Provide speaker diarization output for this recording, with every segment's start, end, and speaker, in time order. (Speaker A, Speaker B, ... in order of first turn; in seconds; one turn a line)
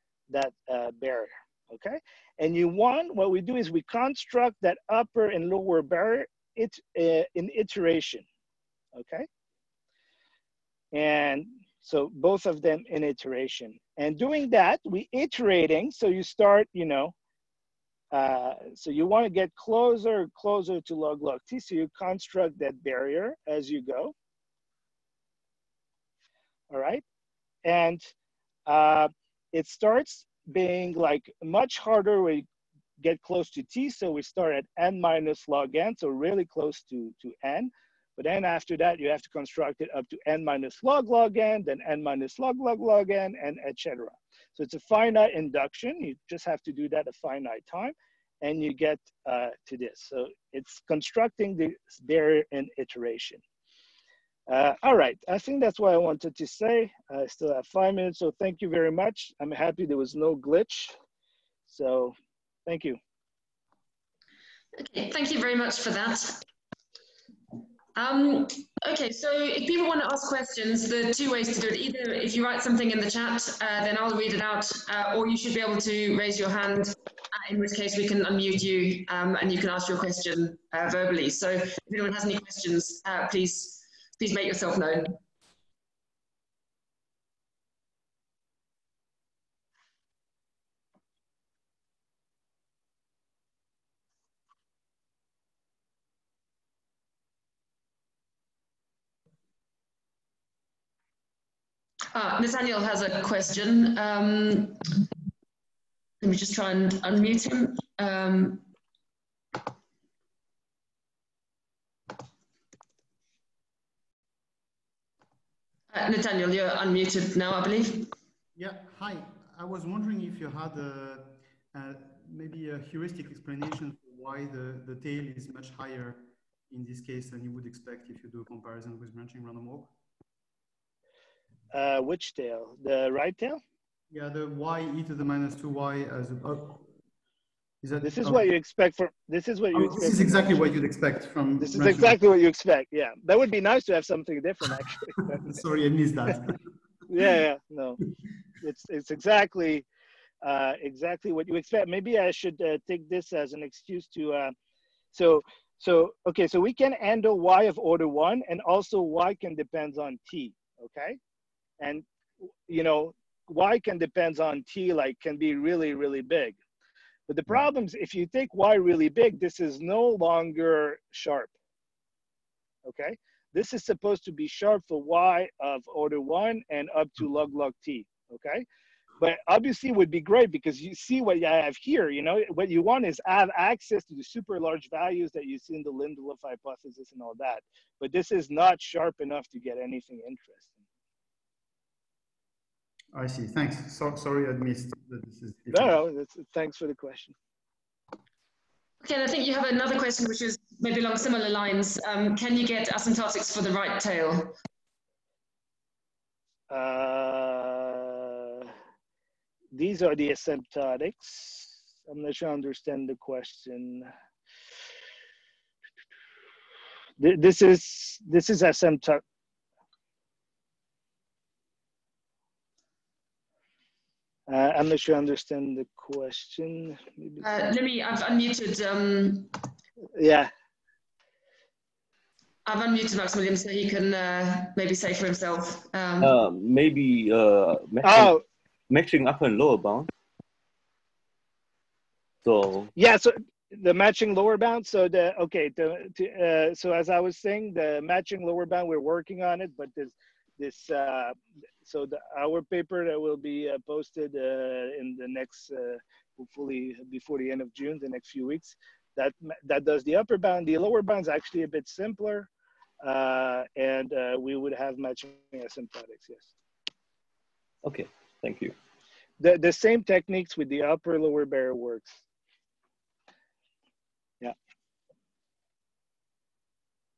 Speaker A: 0.3-8.2
Speaker A: 8.9-9.3
Speaker A: 10.9-17.1
Speaker A: 18.1-24.1
Speaker A: 26.7-27.0
Speaker A: 27.6-28.1
Speaker A: 28.7-32.5
Speaker A: 33.0-53.4
Speaker A: 54.5-60.9
Speaker A: 61.6-63.0
Speaker B: 64.8-66.4
Speaker B: 68.0-85.2
Speaker B: 102.1-104.9
Speaker B: 106.2-108.6
Speaker B: 115.9-118.1
Speaker C: 118.5-129.9
Speaker A: 131.7-133.6
Speaker C: 134.1-136.8
Speaker C: 137.8-138.5
Speaker A: 138.0-140.7
Speaker C: 139.7-142.2
Speaker A: 141.6-145.6
Speaker C: 145.3-146.6
Speaker A: 147.1-148.0
Speaker A: 148.6-149.8
Speaker A: 150.4-154.5
Speaker A: 155.1-161.2
Speaker A: 161.8-162.0
Speaker A: 162.7-166.6
Speaker A: 167.3-171.5
Speaker A: 172.8-178.7
Speaker A: 179.2-190.8
Speaker C: 193.1-196.0
Speaker A: 195.7-197.3
Speaker B: 199.0-204.6
Speaker A: 206.7-208.7
Speaker A: 209.7-214.1
Speaker A: 217.2-219.2
Speaker A: 224.5-227.4
Speaker B: 227.4-229.5
Speaker A: 230.1-230.5
Speaker B: 232.7-236.3
Speaker D: 236.2-238.3
Speaker A: 238.0-238.4
Speaker D: 238.9-240.1
Speaker D: 242.4-242.9
Speaker A: 242.9-262.5
Speaker A: 263.0-266.5
Speaker D: 267.8-268.7
Speaker A: 269.4-272.2